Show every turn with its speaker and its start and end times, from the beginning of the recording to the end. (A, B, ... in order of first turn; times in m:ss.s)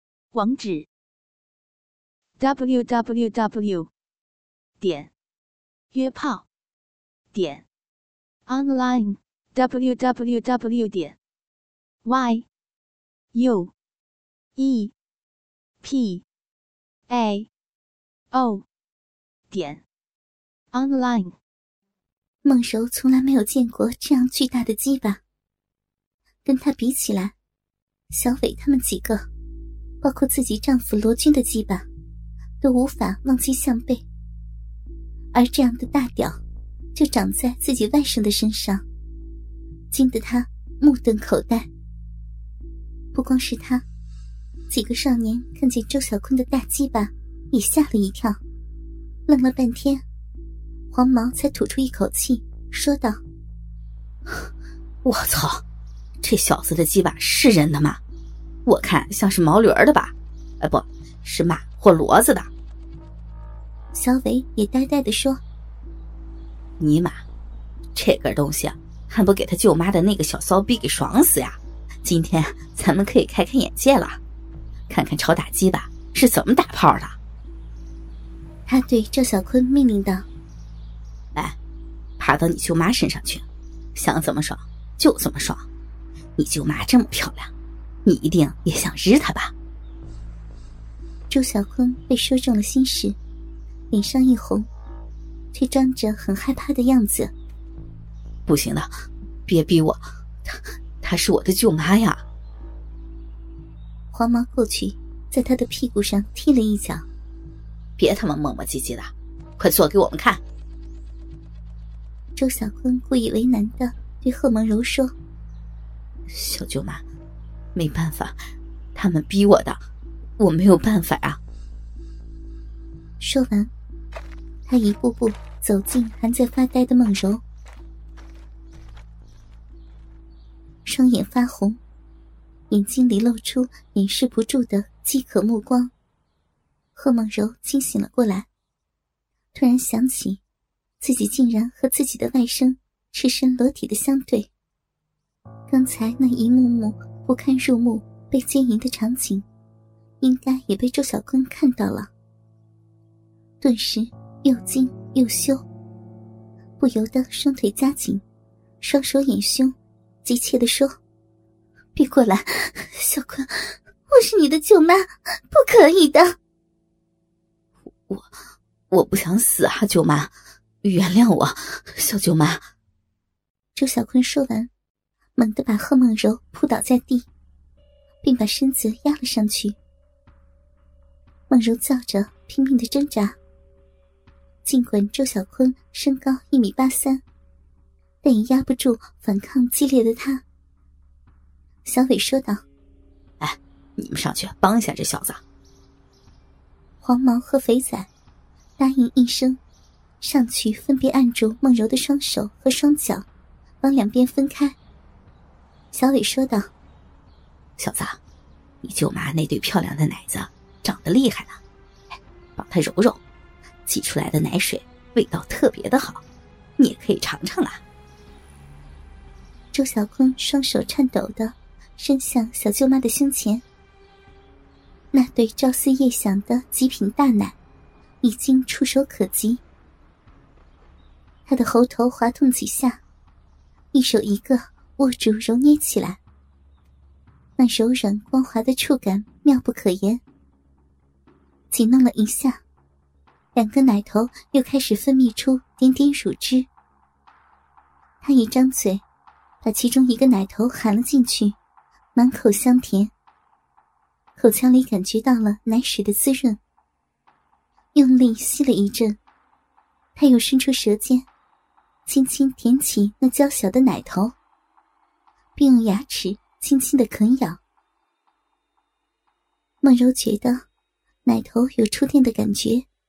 0:00.3-0:00.9 A
0:02.4-0:03.9 A
0:04.8-0:05.1 A
0:05.9-0:06.5 A
0:07.3-0:07.6 A
0:08.5-0:11.2 A
0:12.0-0:12.5 A
0:13.3-0:13.7 A
0:14.6-0:14.9 A
0:15.8-0:16.2 A
0:17.1-0:17.5 A
0:18.3-0:18.7 A
0:19.5-0:19.8 A
0:20.7-0:21.4 A
0:22.4-0:25.2 B
0:26.4-0:27.4 B
0:28.1-0:29.2 B
0:30.0-0:31.9 B
0:32.6-0:34.0 B
0:35.3-0:36.4 B
0:37.0-0:38.8 B
0:39.9-0:41.7 B
0:43.1-0:43.8 B
0:44.7-0:48.4 B
0:49.3-0:50.0 B
0:50.9-0:53.2 B
0:55.0-0:55.6 C
0:56.2-0:58.0 C
0:58.7-1:02.5 C
1:03.9-1:05.4 B
1:06.8-1:07.2 C
1:08.0-1:14.2 C
1:14.9-1:17.2 C
1:18.7-1:20.3 B
1:22.2-1:25.7 C
1:26.4-1:27.5 C
1:28.0-1:29.5 C
1:31.3-1:33.2 B
1:33.9-1:34.7 B
1:35.5-1:37.3 B
1:38.5-1:38.9 C
1:39.5-1:42.2 C
1:44.1-1:47.1 B
1:48.0-1:50.4 C
1:52.4-1:55.1 B
1:56.3-1:57.0 C
1:57.8-1:58.4 C
1:59.0-1:59.8 C
2:00.4-2:01.4 C
2:03.2-2:03.7 B
2:04.7-2:07.4 B
2:10.8-2:11.8 B
2:12.7-2:15.9 B
2:16.9-2:18.5 B
2:19.5-2:20.4 B
2:21.0-2:24.5 B
2:25.7-2:29.4 B
2:30.2-2:32.1 B
2:33.6-2:35.6 B
2:36.8-2:38.2 B
2:38.8-2:40.9 B
2:41.9-2:46.4 B
2:48.9-2:50.3 C
2:50.8-2:52.6 C
2:53.8-2:54.7 B
2:55.4-2:57.3 B
2:58.2-2:59.8 B
3:01.5-3:03.4 B
3:04.6-3:07.2 B
3:08.2-3:10.4 B
3:11.8-3:12.6 B
3:13.4-3:15.4 C
3:17.0-3:18.1 B
3:18.8-3:19.6 B
3:20.2-3:23.2 B
3:23.8-3:24.8 B
3:25.9-3:26.7 B
3:27.8-3:28.2 C
3:28.8-3:31.6 C
3:32.6-3:33.2 C
3:33.8-3:36.2 C
3:36.8-3:37.8 C
3:39.7-3:43.6 B
3:45.1-3:47.6 B
3:48.2-3:49.6 B
3:51.5-3:53.0 B
3:53.9-3:56.2 B
3:57.6-4:00.2 B
4:01.7-4:02.6 B
4:03.5-4:06.7 B
4:08.2-4:09.0 B
4:09.6-4:11.6 B
4:12.2-4:13.1 B
4:14.4-4:16.6 B
4:17.9-4:19.2 B
4:20.2-4:21.3 B
4:22.1-4:24.4 B
4:25.6-4:27.6 B
4:29.8-4:30.6 B
4:31.2-4:32.9 B